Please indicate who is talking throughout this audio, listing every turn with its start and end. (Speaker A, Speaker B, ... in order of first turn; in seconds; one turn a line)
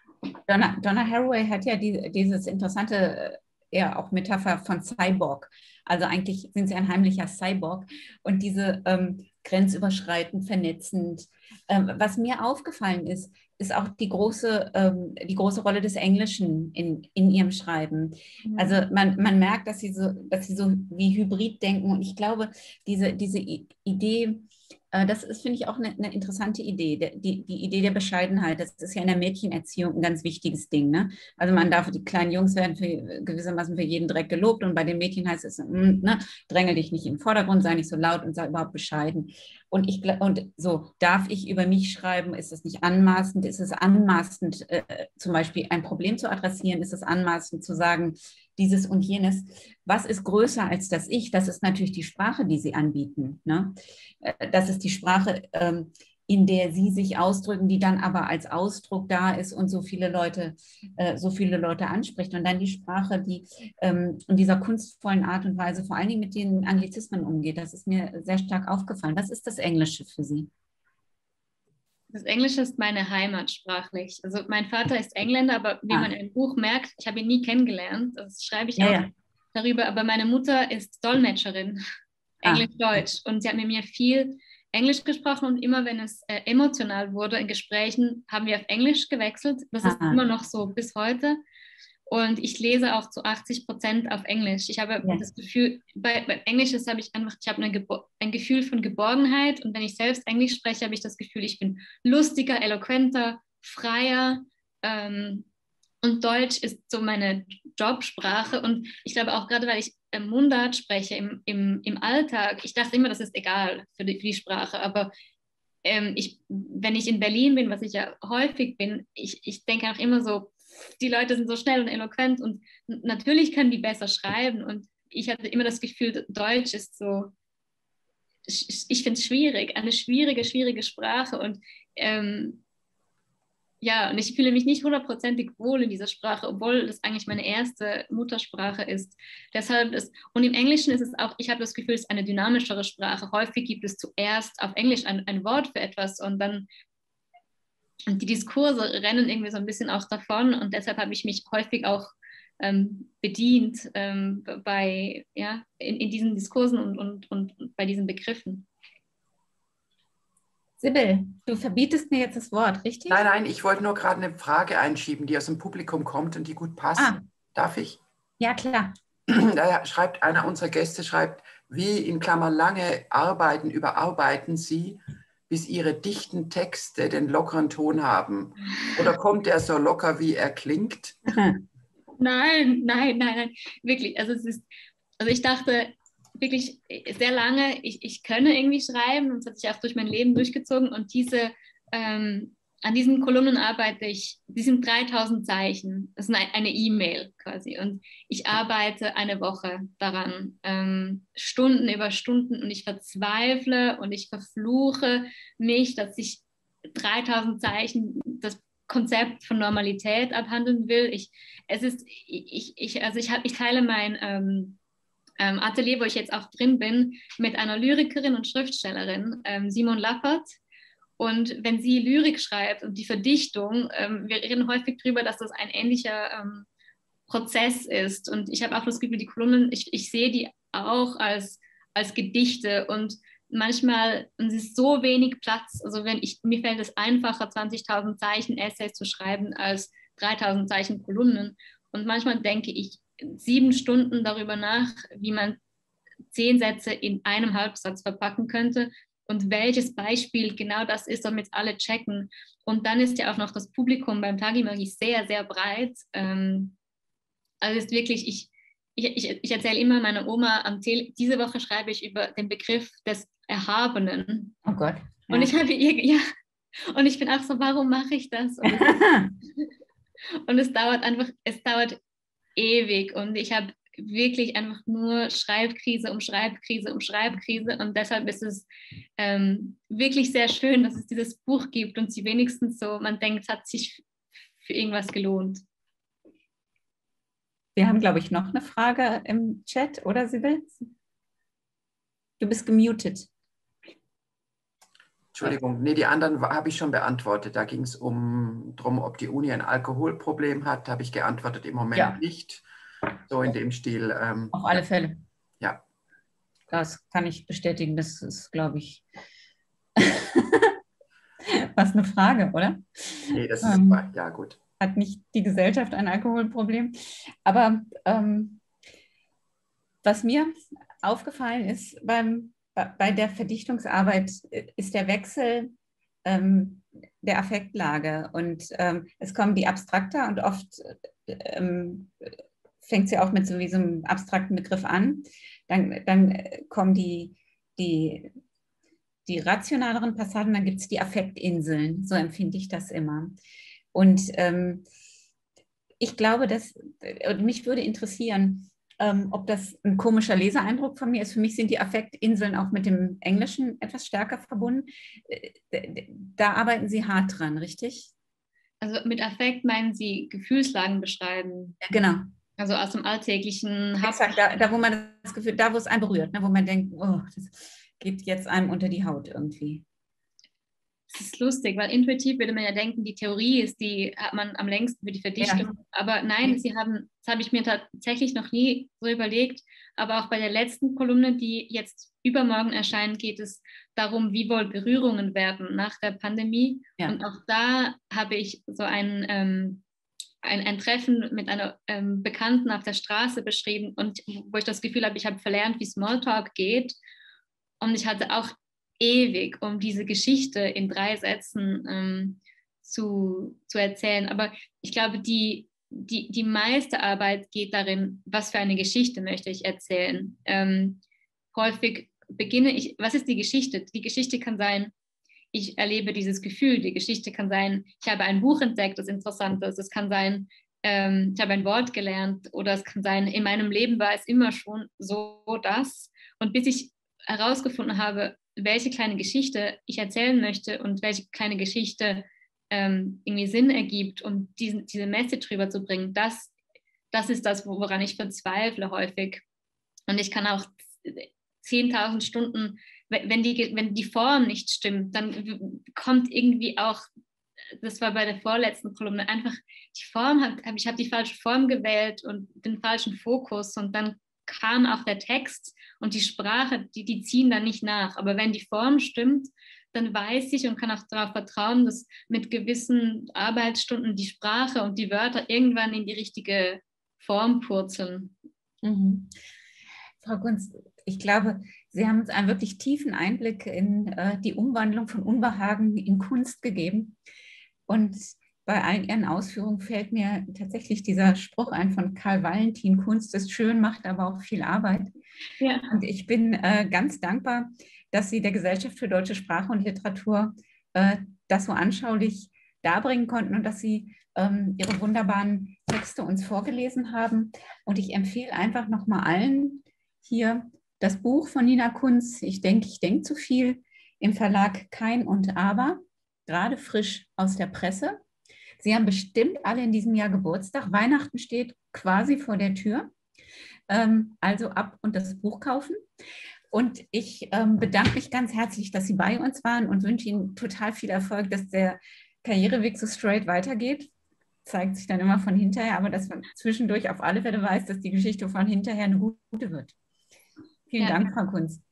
Speaker A: 0.5-70.5
Speaker B: 18.5-18.8
Speaker B: 72.1-81.8
Speaker A: 78.8-79.1
Speaker B: 82.4-91.4
Speaker A: 89.8-90.2
Speaker B: 92.1-105.5
Speaker B: 106.0-115.1
Speaker B: 115.8-127.3
Speaker B: 128.4-132.6
Speaker B: 133.8-146.7
Speaker B: 148.1-158.7
Speaker A: 160.8-163.2
Speaker C: 163.1-168.0
Speaker A: 168.4-168.9
Speaker C: 169.3-181.2
Speaker A: 181.3-181.6
Speaker B: 182.2-184.6
Speaker B: 185.2-214.8
Speaker B: 215.4-220.6
Speaker B: 221.2-226.7
Speaker B: 227.3-245.6
Speaker B: 246.3-256.7
Speaker B: 257.6-264.6
Speaker A: 264.6-265.5
Speaker B: 265.3-266.2
Speaker B: 266.8-269.0
Speaker A: 268.6-269.3
Speaker B: 270.4-272.0
Speaker B: 272.6-278.7
Speaker B: 279.2-284.0
Speaker B: 284.6-285.6
Speaker A: 287.8-290.9
Speaker A: 292.4-293.3
Speaker C: 295.3-302.6
Speaker A: 301.9-302.2
Speaker C: 303.3-304.8
Speaker A: 304.5-305.2
Speaker A: 306.7-309.0
Speaker A: 310.0-310.7
Speaker A: 311.4-314.0
Speaker C: 313.3-314.6
Speaker A: 314.8-316.9
Speaker A: 317.4-318.6
Speaker A: 320.0-320.5
Speaker A: 321.0-325.7
Speaker A: 326.2-338.3
Speaker A: 339.2-343.4
Speaker A: 343.9-344.8
Speaker A: 346.0-358.1
Speaker B: 358.8-361.8
Speaker A: 361.8-362.2
Speaker B: 362.6-364.3
Speaker A: 364.0-369.8
Speaker B: 371.1-389.8
Speaker A: 375.4-375.6
Speaker B: 390.4-396.9
Speaker B: 397.8-411.0
Speaker B: 411.5-414.9
Speaker B: 415.5-436.5
Speaker B: 437.1-439.4
Speaker B: 440.1-447.0
Speaker B: 447.8-468.3
Speaker A: 468.8-469.3
Speaker A: 470.2-477.1
Speaker A: 477.9-485.1
Speaker B: 485.6-485.9
Speaker A: 485.9-508.2
Speaker A: 508.8-513.1
Speaker A: 513.9-516.0
Speaker A: 516.7-524.1
Speaker A: 524.6-529.9
Speaker A: 530.9-531.8